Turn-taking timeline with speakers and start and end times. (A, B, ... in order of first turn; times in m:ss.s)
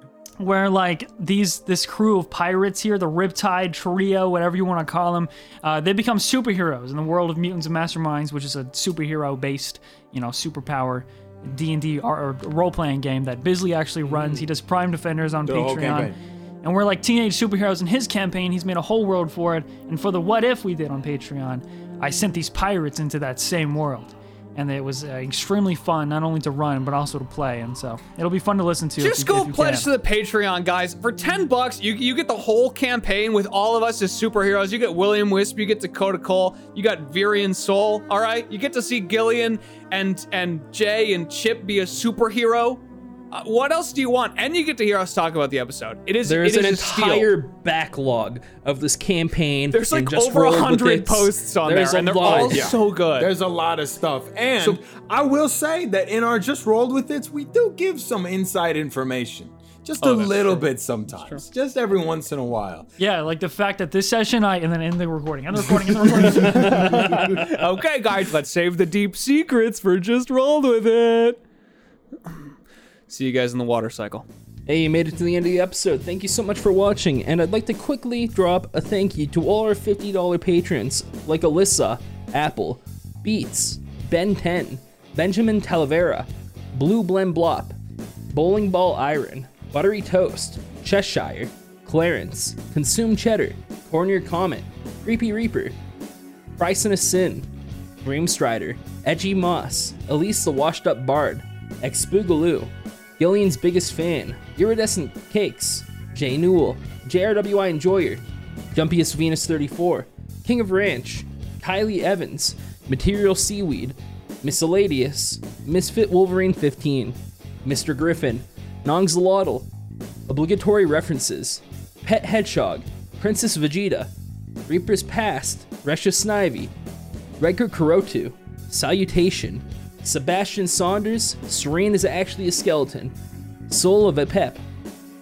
0:00.4-0:29.9 A
0:15.4-0:16.2 B
0:29.0-0:47.3 C
0:46.2-0:52.8 D
0:49.7-0:53.3 C
0:52.2-1:02.9 B
1:00.0-1:01.4 C
1:03.0-1:07.2 A
1:06.3-1:11.4 C
1:06.4-1:07.4 D
1:13.1-1:14.3 C
1:14.7-1:27.8 D
1:28.3-1:35.8 D
1:36.6-1:37.5 D
1:38.0-1:59.7 D
2:00.3-2:04.1 D
2:04.6-2:06.7 D
2:07.4-2:13.2 D
2:13.7-2:14.6 D